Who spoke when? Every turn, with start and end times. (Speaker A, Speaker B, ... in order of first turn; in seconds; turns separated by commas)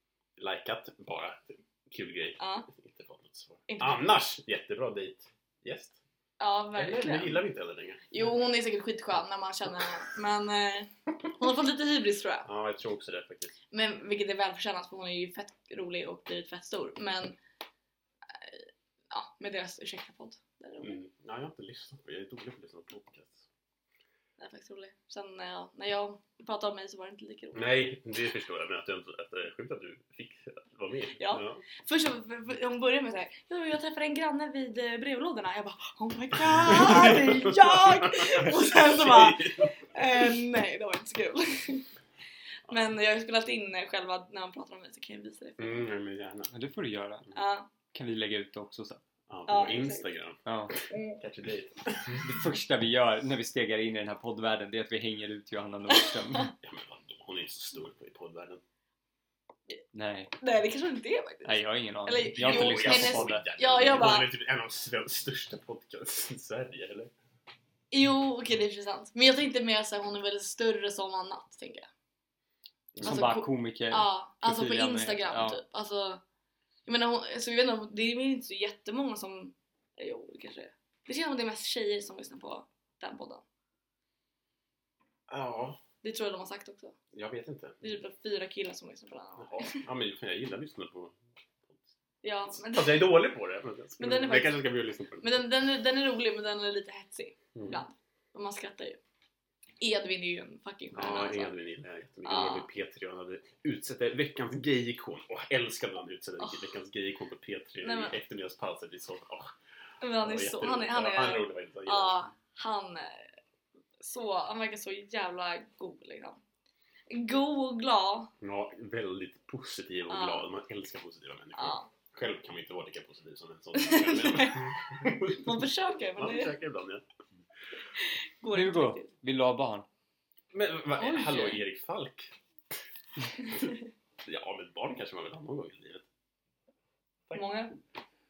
Speaker A: 0.4-6.0, Speaker B: 2.4-2.6, Speaker B: 3.7-4.0, Speaker B: 6.4-7.4, Speaker A: 6.8-8.0, Speaker B: 8.1-12.5, Speaker A: 12.4-13.6, Speaker B: 13.7-17.4, Speaker B: 18.3-21.0, Speaker A: 20.8-23.5, Speaker B: 24.4-27.7, Speaker A: 27.5-31.6, Speaker B: 31.2-41.9, Speaker A: 36.5-40.4, Speaker B: 42.7-45.9, Speaker A: 45.6-46.5, Speaker C: 46.5-47.3, Speaker B: 47.3-47.7, Speaker C: 47.9-49.0, Speaker A: 49.3-52.3, Speaker B: 49.5-50.1, Speaker C: 50.5-50.7, Speaker B: 50.9-51.2, Speaker C: 52.2-56.5, Speaker A: 56.6-58.6, Speaker C: 59.9-60.3, Speaker B: 60.4-64.3, Speaker C: 61.4-63.4, Speaker A: 62.3-67.1, Speaker B: 67.9-71.9, Speaker A: 72.9-73.2, Speaker C: 73.0-75.6, Speaker B: 73.0-76.2, Speaker B: 76.9-83.4, Speaker A: 85.3-85.8, Speaker B: 86.0-86.9, Speaker A: 87.1-87.8, Speaker B: 87.8-89.8, Speaker A: 89.4-91.9, Speaker B: 92.2-93.2, Speaker A: 92.6-95.4, Speaker B: 94.0-94.6, Speaker B: 95.2-99.0, Speaker A: 97.5-97.8, Speaker B: 99.8-101.5, Speaker A: 100.9-109.5, Speaker B: 102.2-102.7, Speaker B: 106.4-106.7, Speaker B: 107.8-108.2, Speaker B: 110.0-113.3, Speaker A: 110.2-112.2, Speaker B: 114.0-116.4, Speaker B: 117.1-118.3, Speaker A: 118.4-127.0, Speaker B: 120.1-120.5, Speaker B: 121.6-121.9, Speaker B: 123.7-126.5, Speaker B: 128.0-129.1, Speaker C: 128.5-129.9, Speaker A: 130.5-132.3, Speaker B: 131.0-131.6, Speaker A: 133.4-136.1, Speaker B: 137.3-137.8